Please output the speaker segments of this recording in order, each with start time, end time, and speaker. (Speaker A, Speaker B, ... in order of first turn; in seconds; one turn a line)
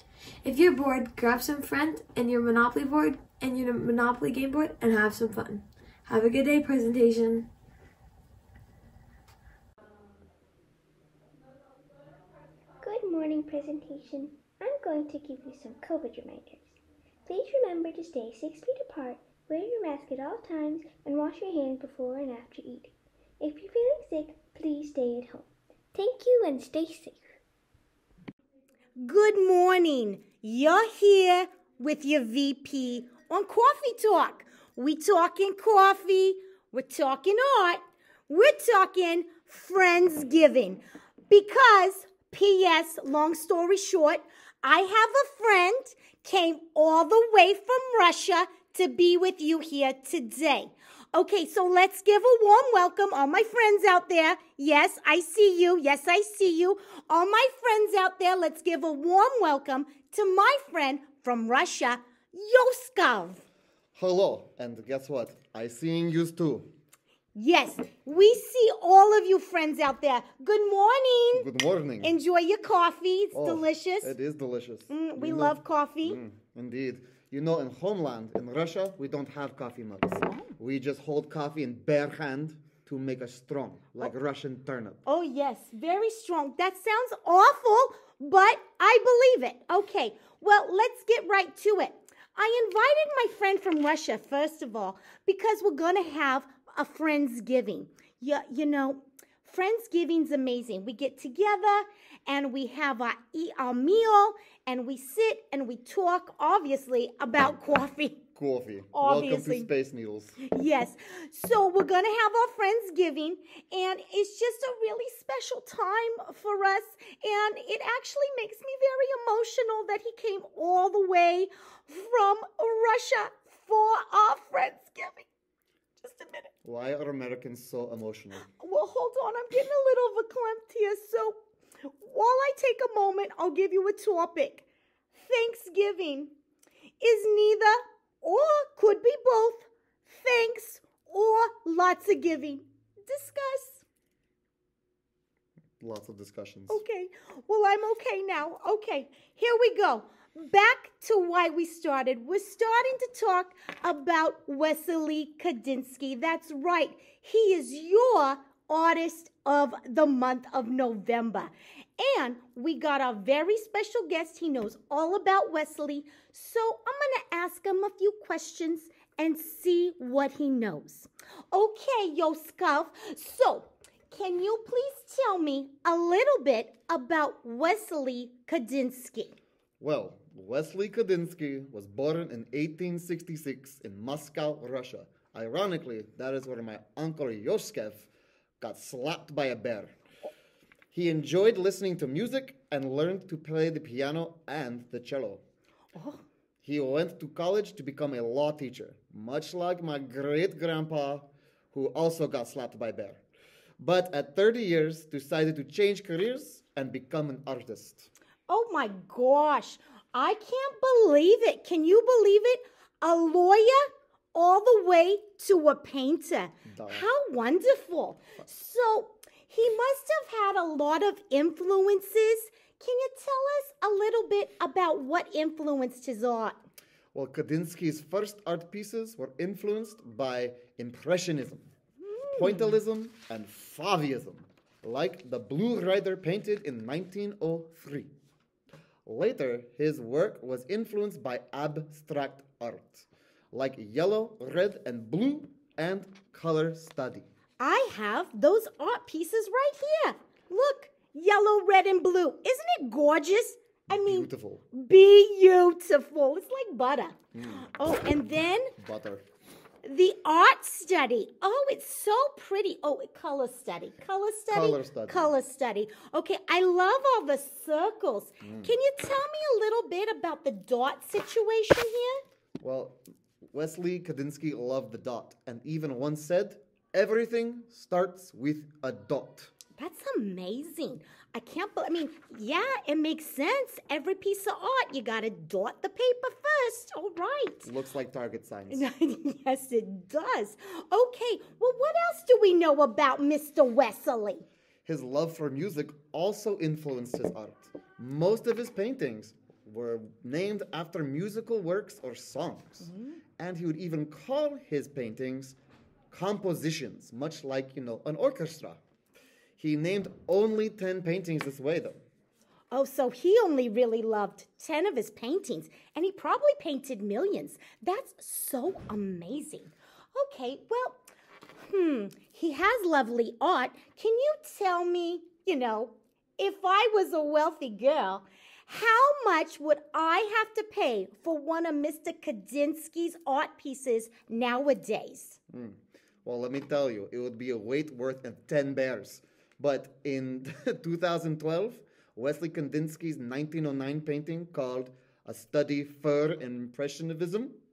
Speaker A: 0.4-7.5
Speaker B: 12.8-27.3
Speaker C: 29.0-63.4
Speaker D: 63.9-66.7
Speaker C: 67.3-71.5
Speaker D: 71.3-72.1
Speaker C: 72.0-74.1
Speaker D: 73.3-85.0
Speaker C: 74.9-76.2
Speaker C: 80.2-80.5
Speaker C: 85.0-108.2
Speaker D: 108.3-110.4
Speaker C: 108.9-109.7
Speaker C: 110.5-125.3
Speaker C: 126.0-126.5
Speaker D: 126.6-128.4
Speaker C: 128.4-131.4
Speaker C: 132.0-134.6
Speaker C: 135.2-136.3
Speaker C: 137.0-143.8
Speaker D: 145.8-146.8
Speaker C: 146.7-179.4
Speaker D: 179.8-188.1
Speaker D: 188.6-189.9
Speaker D: 190.9-195.4
Speaker C: 195.9-196.2
Speaker D: 196.6-203.2
Speaker D: 203.8-208.1
Speaker C: 208.5-213.8
Speaker C: 214.3-226.6
Speaker D: 216.7-217.1
Speaker D: 227.1-231.7
Speaker C: 232.0-232.8
Speaker D: 232.3-238.1
Speaker D: 239.1-247.3
Speaker C: 247.6-258.7
Speaker D: 253.9-254.6
Speaker D: 257.3-257.6
Speaker D: 258.8-259.2
Speaker C: 259.8-272.2
Speaker D: 264.5-265.3
Speaker D: 268.4-268.7
Speaker D: 272.6-273.0
Speaker D: 273.5-279.5
Speaker C: 279.8-287.7
Speaker D: 287.6-288.8
Speaker C: 288.7-294.4
Speaker D: 294.8-305.6
Speaker C: 302.8-303.1
Speaker D: 306.1-308.8
Speaker D: 309.6-312.0
Speaker C: 312.7-321.0
Speaker C: 321.7-335.4
Speaker D: 335.5-347.6